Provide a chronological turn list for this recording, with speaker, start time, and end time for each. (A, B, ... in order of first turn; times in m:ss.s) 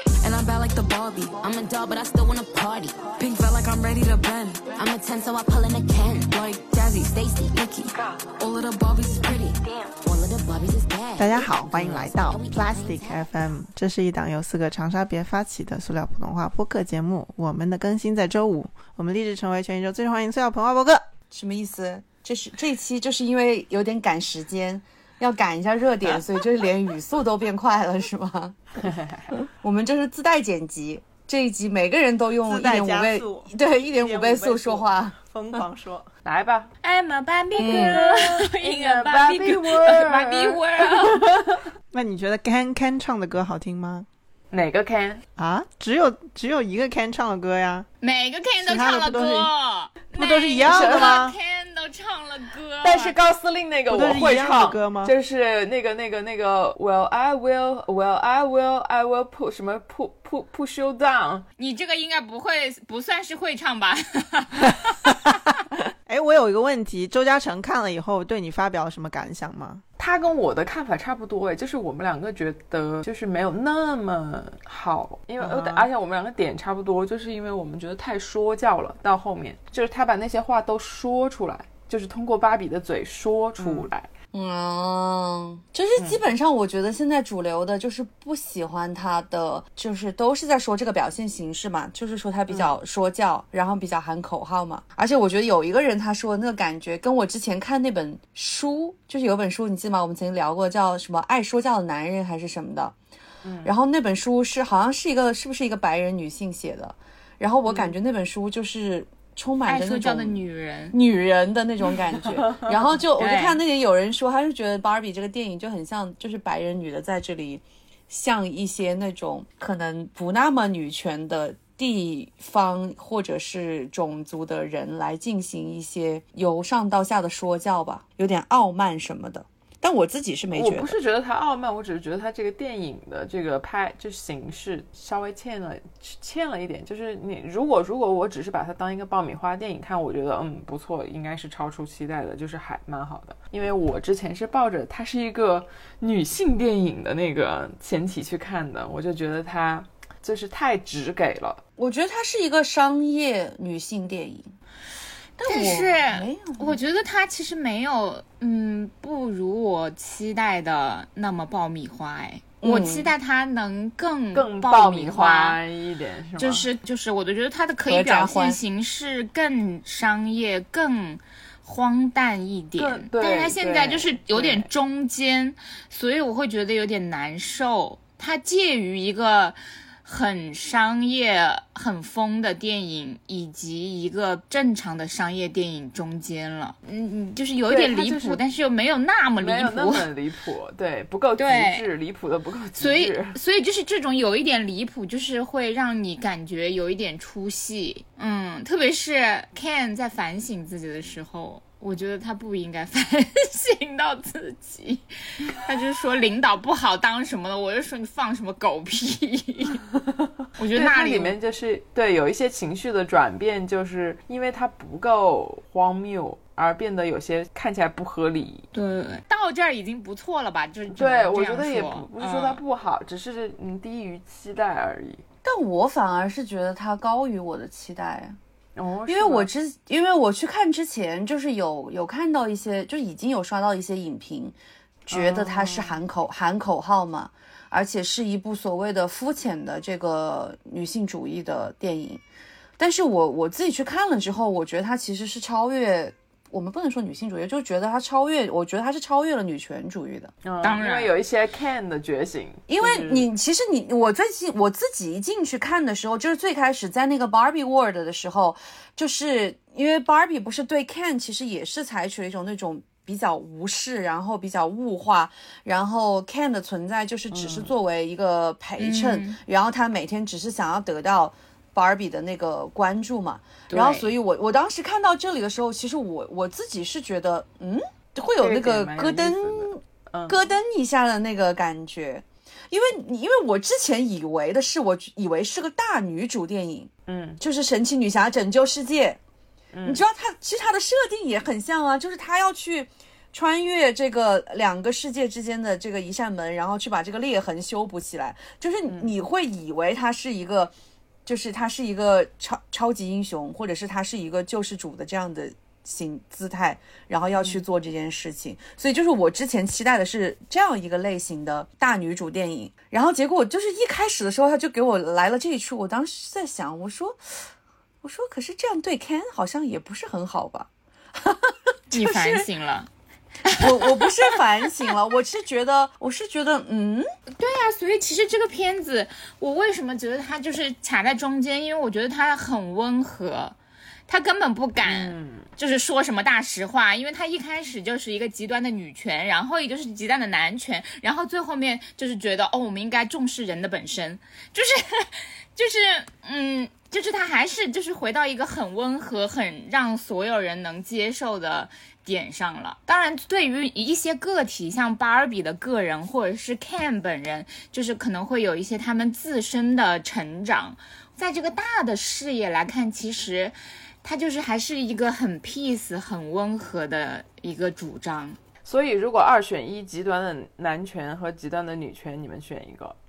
0:00.2-0:13.3 A
0:11.2-0:21.0 B
0:21.3-0:28.6 C
0:28.8-0:29.3 D
0:29.5-0:35.6 C
0:32.4-0:36.1 B
0:36.2-0:36.7 D
0:36.8-0:41.3 E
0:37.6-0:38.0 C
0:37.6-0:41.6 D
0:41.9-0:44.1 B
0:44.5-0:45.2 D
0:45.4-0:47.9 B
0:48.0-0:53.2 E
0:48.6-0:49.5 B
0:50.1-0:51.4 B
0:50.6-0:51.2 D
0:52.8-1:01.4 D
0:53.9-0:55.1 B
1:01.6-1:05.4 E
1:06.0-1:09.8 B
1:10.0-1:24.1 D
1:15.4-1:15.9 B
1:23.6-1:23.8 B
1:24.3-1:42.9 C
1:26.0-1:26.2 D
1:32.5-1:32.7 D
1:43.4-1:43.7 D
1:43.6-2:11.0 C
1:47.7-1:47.9 D
1:49.7-1:51.0 E
1:52.3-1:52.7 D
1:53.2-1:53.6 E
2:10.5-2:31.6 D
2:31.8-2:34.5 C
2:35.4-2:36.8 C
2:35.4-2:45.6 E
2:42.6-2:43.1 C
2:44.3-2:46.7 D
2:46.4-3:10.1 E
2:47.9-2:48.6 C
2:52.8-2:54.7 D
3:07.7-3:08.4 D
3:09.4-3:13.4 D
3:11.4-3:11.8 E
3:12.8-3:29.8 E
3:30.6-3:31.3 E
3:30.7-3:38.7 D
3:38.7-3:42.6 E
3:40.9-3:45.2 D
3:45.4-3:48.4 C
3:48.8-3:49.5 D
3:49.1-3:54.6 C
3:55.1-3:56.0 D
3:55.1-4:02.2 C
4:02.8-4:10.3 C
4:10.4-4:13.3 D
4:10.6-4:11.1 E
4:12.7-4:49.2 C
4:27.3-4:27.7 D
4:28.8-4:29.4 E
4:33.7-4:34.1 E
4:38.4-4:40.4 D
4:47.1-4:47.4 D
4:49.7-4:50.0 D
4:49.8-5:00.7 C
5:01.2-5:17.2 C
5:18.0-5:22.5 C
5:21.9-5:22.9 E
5:23.5-5:24.1 E
5:23.5-5:27.0 C
5:27.3-5:33.6 E
5:34.1-6:08.4 E
5:34.8-5:35.5 D
6:08.6-6:13.0 D